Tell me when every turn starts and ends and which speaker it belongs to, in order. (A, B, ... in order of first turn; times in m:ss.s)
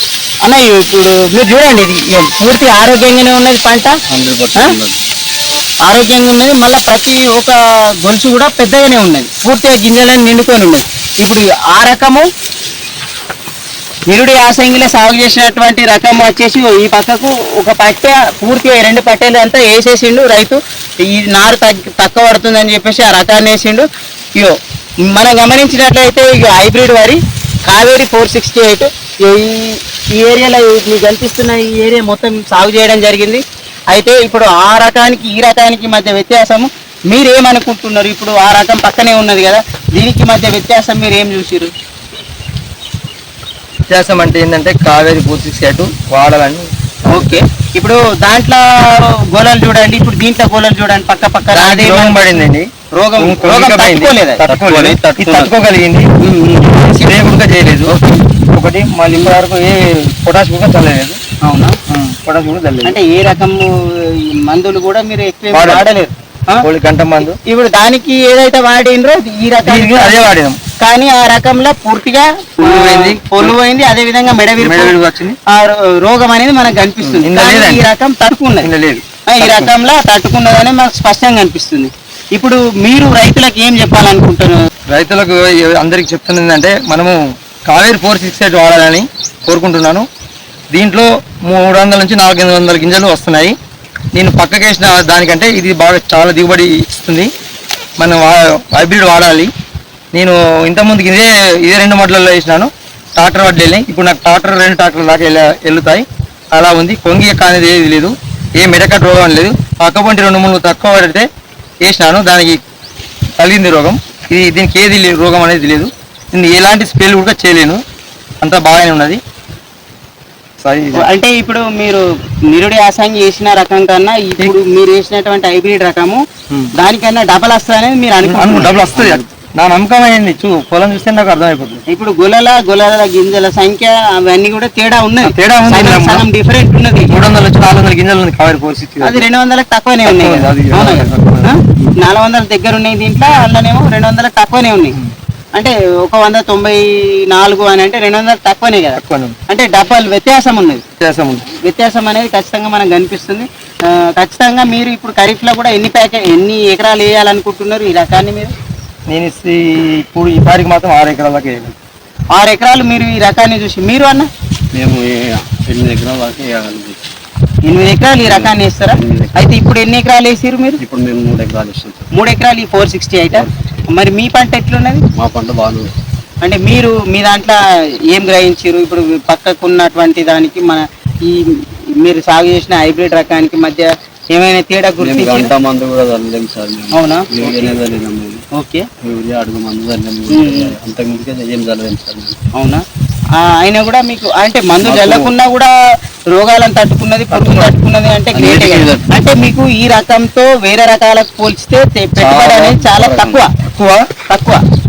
0:00.4-0:03.9 A
0:04.1-0:05.0 B
0:05.8-0:12.3 A
0:14.1-0:41.7 A
0:43.9-0:47.4 C
0:47.1-0:52.4 A
0:51.5-0:56.1 C
0:53.0-0:54.4 A
0:54.5-0:55.4 B
0:55.1-0:55.5 A
0:56.2-0:57.1 A
0:56.9-0:57.9 C
0:57.8-0:58.2 A
0:58.5-1:01.2 C
0:59.1-0:59.4 A
1:01.4-1:01.8 A
1:01.9-1:03.0 C
1:02.8-1:06.6 A
1:05.5-1:05.8 C
1:06.6-1:07.4 C
1:07.2-1:10.2 A
1:09.6-1:10.6 C
1:10.8-1:15.0 A
1:12.6-1:13.6 C
1:14.6-1:15.4 C
1:15.5-1:18.7 A
1:17.0-1:17.9 C
1:18.6-1:19.7 C
1:19.3-1:24.6 A
1:24.9-1:30.1 C
1:30.7-1:33.5 C
1:34.1-1:37.3 C
1:38.0-1:39.5 C
1:40.1-1:51.2 C
1:51.8-1:52.6 C
1:53.4-1:57.8 C
1:58.4-1:59.2 C
2:00.6-2:01.1 C
2:01.0-2:06.2 A
2:06.7-2:09.2 A
2:08.2-2:11.8 C
2:11.9-2:17.2 A
2:15.2-2:16.2 C
2:17.1-2:19.2 C
2:19.0-2:25.0 A
2:20.0-2:21.9 C
2:25.5-2:30.8 A
2:29.0-2:29.4 C
2:31.0-2:31.5 C
2:31.5-2:38.5 A
2:39.1-2:41.8 C
2:42.3-2:44.3 A
2:44.7-2:47.0 B
2:47.6-2:50.8 A
2:48.2-2:49.5 B
2:50.8-2:52.1 B
2:52.1-2:55.0 A
2:53.3-2:53.7 B
2:55.1-2:55.9 B
2:56.4-2:57.6 A
2:58.1-3:05.5 A
3:05.0-3:08.4 B
3:06.9-3:07.8 A
3:08.5-3:08.8 A
3:09.0-3:12.4 B
3:10.3-3:10.7 A
3:12.5-3:12.8 A
3:13.4-3:15.7 A
3:14.8-3:15.3 B
3:16.3-3:23.5 A
3:17.4-3:17.6 B
3:18.3-3:19.1 B
3:22.2-3:23.1 C
3:23.0-3:23.4 B
3:23.6-3:24.1 C
3:24.3-3:24.6 A